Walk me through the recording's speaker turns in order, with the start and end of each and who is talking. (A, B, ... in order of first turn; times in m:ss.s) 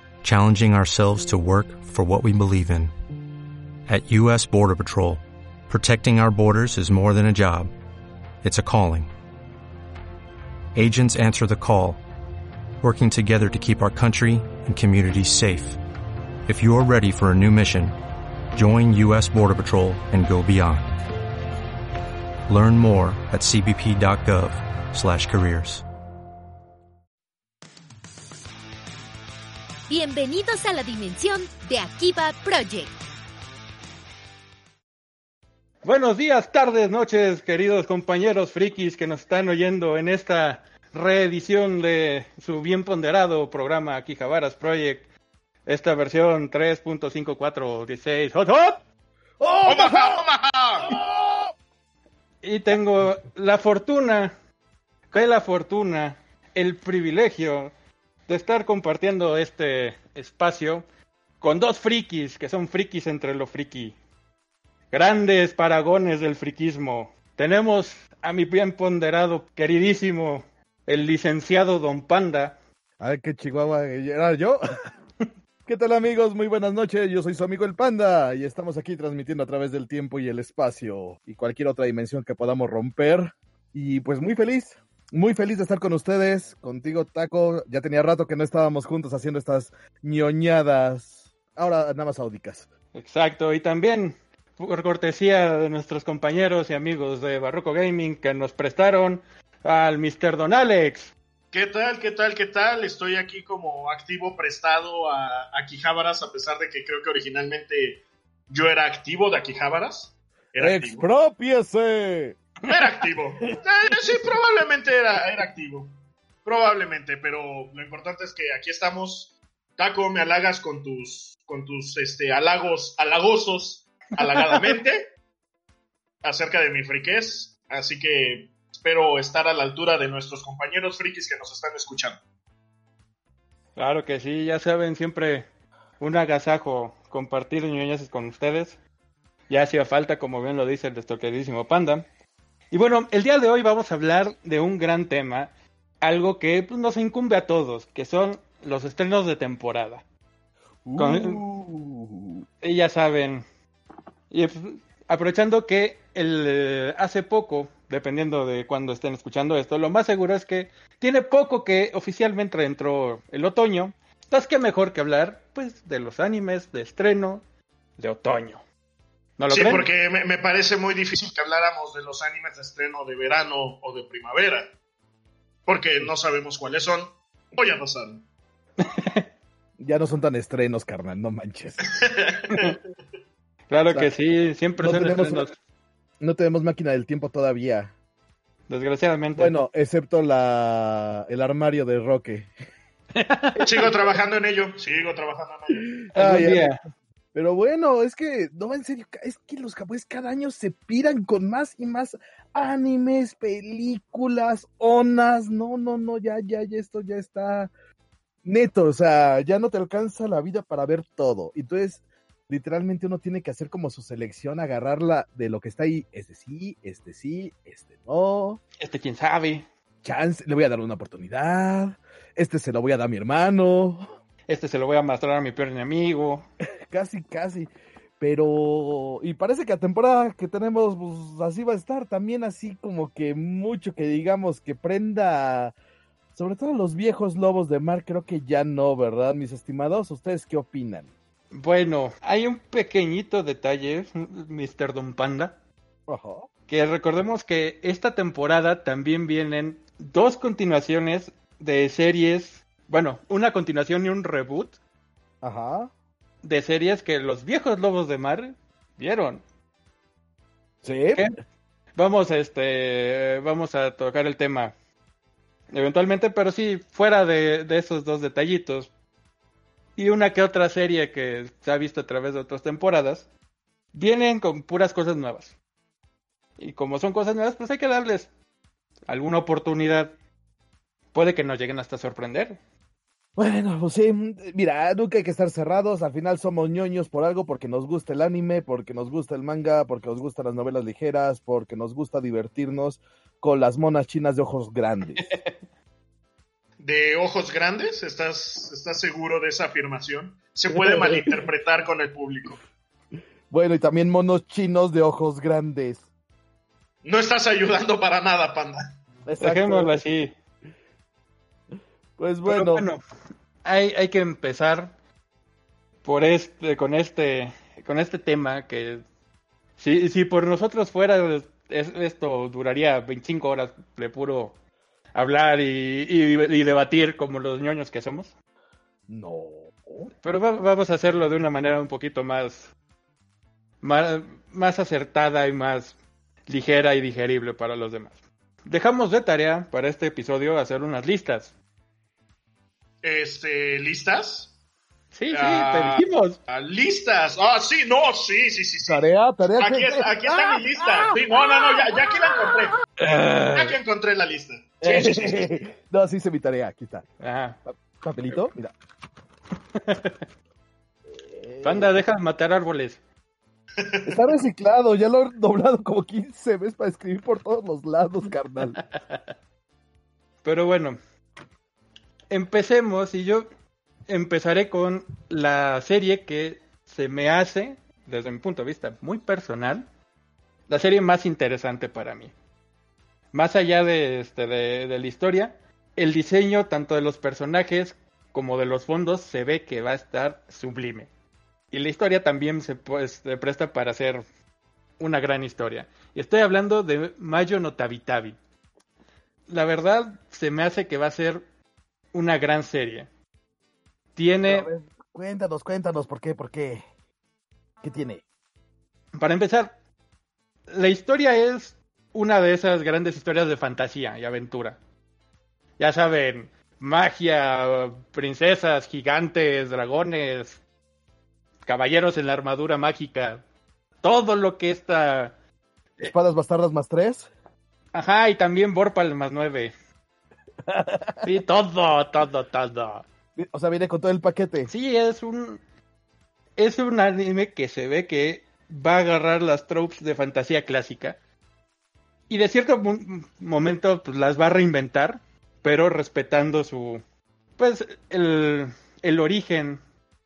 0:00.2-0:02.9 A
0:03.9-0:07.7 A
0:08.4-0:09.1 A
0:10.8-0:12.0 A
0:12.8-0:15.8 A
0:16.5-0:18.0 A
0:18.5-0:21.1 A
0:22.5-0:25.8 A
0:29.9-0:32.9 B
0:35.8-0:45.1 C
0:45.7-0:48.8 C
0:49.4-0:50.2 D
0:49.7-0:50.9 E
0:50.8-0:51.5 D
0:52.4-0:54.3 C
0:55.1-0:57.7 C
0:58.3-1:00.9 C
1:01.4-1:04.0 C
1:04.9-1:12.6 C
1:13.0-1:14.6 D
1:15.7-1:32.7 D
1:32.9-1:41.1 C
1:41.5-1:51.0 E
1:50.6-1:52.4 D
1:52.7-1:53.1 C
1:52.7-1:55.9 E
1:53.9-1:54.3 D
1:56.4-2:05.1 E
2:04.2-2:04.8 C
2:06.2-2:12.2 E
2:13.8-2:15.5 C
2:16.0-2:18.8 C
2:19.5-2:22.1 C
2:22.7-2:25.5 C
2:26.0-2:30.0 C
2:30.9-2:32.4 D
2:31.0-2:31.4 C
2:32.6-2:33.4 C
2:34.3-2:47.4 C
2:48.0-2:48.6 C
2:49.4-2:49.9 C
2:49.5-2:54.7 E
2:55.7-2:58.2 E
2:58.8-2:59.3 C
2:59.8-3:01.9 D
3:01.9-3:02.7 E
3:02.5-3:02.8 C
3:03.7-3:05.6 C
3:04.8-3:05.5 D
3:06.2-3:07.9 D
3:08.7-3:09.6 C
3:09.4-3:12.5 D
3:13.2-3:13.9 C
3:13.6-3:15.9 E
3:15.9-3:16.7 D
3:16.2-3:16.8 C
3:17.3-3:27.7 D
3:28.4-3:38.6 D
3:38.8-3:39.7 C
3:40.0-3:44.1 D
3:44.5-3:46.5 C
3:46.6-3:55.8 D
3:56.4-4:01.1 D
4:01.5-4:05.6 C
4:06.1-4:06.5 D
4:06.7-4:14.8 C
4:15.4-4:15.9 D
4:16.4-4:19.4 C
4:20.8-4:21.3 D
4:22.0-4:24.7 C
4:25.7-4:28.9 C
4:30.0-4:33.3 C
4:33.9-4:35.6 C
4:36.6-4:38.3 C
4:39.1-4:40.2 C
4:41.1-4:42.6 C
4:43.4-4:55.4 D
4:55.2-4:55.6 C
4:56.8-5:02.6 E
5:00.7-5:01.3 D
5:03.5-5:06.0 D
5:07.0-5:08.8 E
5:09.3-5:09.9 D
5:09.4-5:10.3 C
5:12.2-5:12.9 D
5:12.5-5:13.0 C
5:13.6-5:14.9 C
5:16.0-5:19.0 C
5:19.8-5:24.6 C
5:25.1-5:28.3 C
5:29.1-5:30.1 D
5:30.2-5:32.7 C
5:33.8-5:41.5 C
5:43.0-5:44.5 E
5:45.1-5:46.4 C
5:45.3-5:49.0 E
5:48.9-5:52.7 D
5:49.6-5:52.8 E
5:53.0-5:53.8 C
5:53.6-5:55.6 E
5:54.8-5:57.1 D
5:57.2-5:57.6 C
5:58.0-5:58.7 D
5:59.7-6:00.2 C
6:01.1-6:02.0 D
6:01.6-6:03.0 C
6:03.8-6:04.3 E
6:04.0-6:08.8 D
6:08.8-6:09.2 C
6:10.4-6:11.0 C
6:12.3-6:13.5 C
6:14.1-6:19.9 C
6:20.7-6:22.3 C
6:23.3-6:31.1 C
6:31.7-6:34.2 C
6:35.0-6:38.4 C
6:39.5-6:41.4 C
6:42.1-6:43.1 C
6:44.2-6:44.7 C
6:44.5-6:46.8 D
6:47.8-6:48.2 D
6:49.2-6:49.8 C
6:50.7-6:54.8 C
6:55.8-7:00.6 C
7:01.6-7:03.4 C
7:04.0-7:05.4 C
7:06.0-7:07.3 D
7:07.9-7:09.7 C
7:10.6-7:11.3 D
7:11.2-7:13.0 C
7:13.4-7:14.7 D
7:14.7-7:15.6 C
7:16.6-7:21.2 C
7:22.3-7:27.0 C
7:27.6-7:29.8 C